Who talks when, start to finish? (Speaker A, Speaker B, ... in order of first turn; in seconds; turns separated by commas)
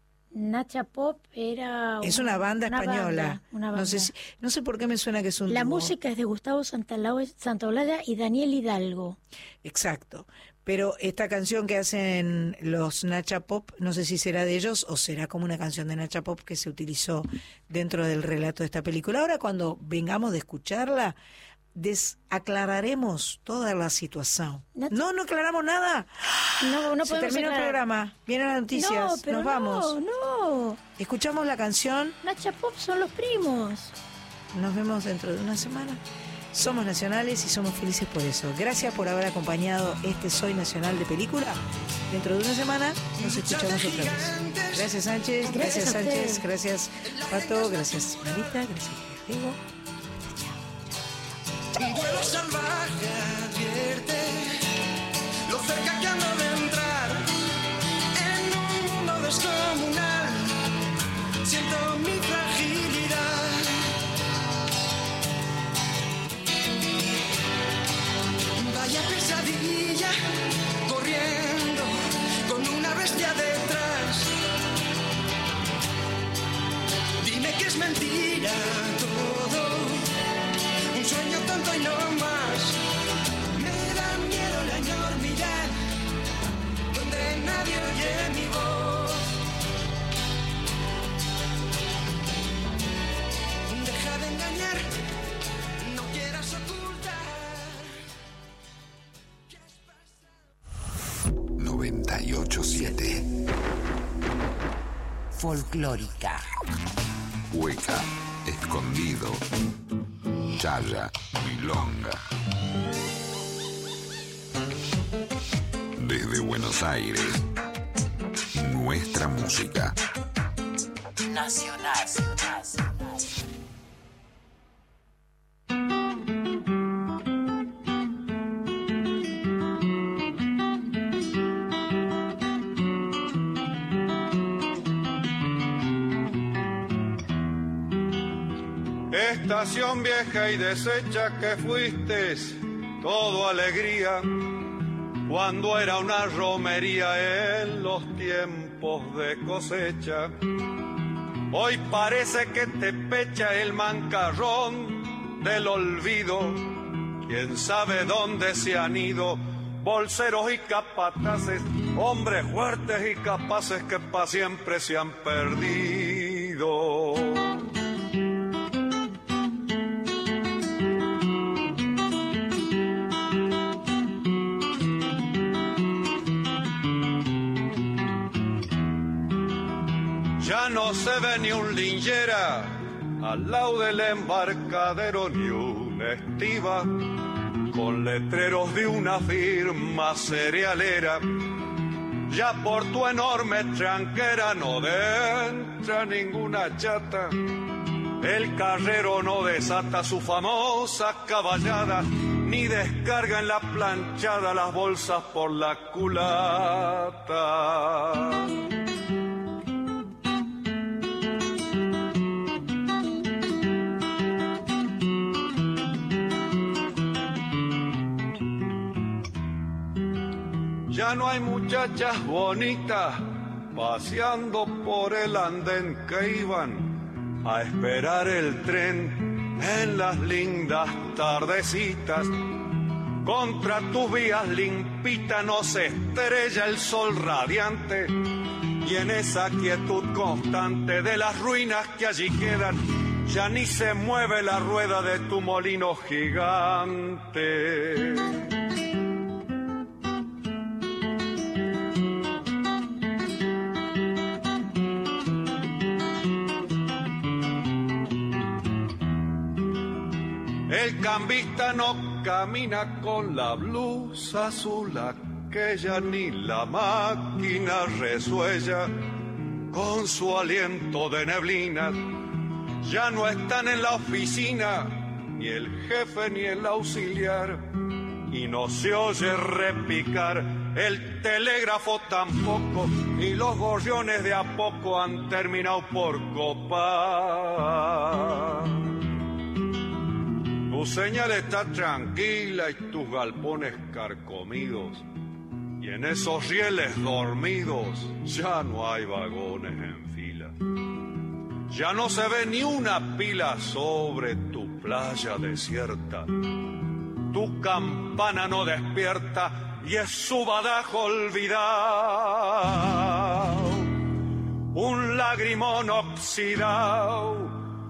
Speaker A: 0.3-4.1, Speaker B: 2.0-5.9, Speaker A: 5.5-9.2, Speaker B: 9.6-21.1, Speaker B: 21.7-30.0, Speaker A: 26.6-27.8, Speaker A: 28.7-30.8, Speaker B: 31.0-32.1, Speaker A: 32.2-33.9, Speaker B: 34.5-36.0, Speaker B: 36.5-49.6, Speaker C: 43.2-45.0, Speaker A: 45.4-46.4, Speaker C: 47.0-48.6, Speaker B: 50.1-50.6, Speaker C: 51.7-54.6, Speaker C: 55.5-57.3, Speaker C: 58.1-60.6, Speaker C: 61.4-63.8, Speaker C: 68.5-70.2, Speaker C: 70.8-74.3, Speaker C: 77.2-80.0, Speaker C: 80.9-82.8, Speaker C: 83.5-85.8, Speaker C: 86.9-89.2, Speaker C: 93.7-94.8, Speaker C: 95.8-97.8, Speaker D: 101.6-103.2, Speaker D: 105.4-105.9, Speaker D: 107.5-109.4, Speaker D: 110.6-112.2, Speaker D: 116.0-117.4, Speaker D: 118.6-119.9, Speaker E: 139.1-144.2, Speaker E: 145.3-150.3, Speaker E: 151.5-156.6, Speaker E: 157.3-167.4, Speaker E: 180.4-186.9, Speaker E: 187.7-191.2, Speaker E: 192.3-197.4, Speaker E: 198.2-208.3, Speaker E: 220.9-226.9, Speaker E: 227.4-232.3, Speaker E: 233.2-238.1, Speaker E: 238.8-248.3, Speaker E: 260.7-268.9, Speaker E: 269.7-272.0, Speaker E: 272.8-277.6, Speaker E: 278.3-288.7, Speaker E: 290.7-295.0, Speaker E: 295.8-300.5, Speaker E: 301.7-306.3, Speaker E: 307.3-313.6, Speaker E: 314.7-317.5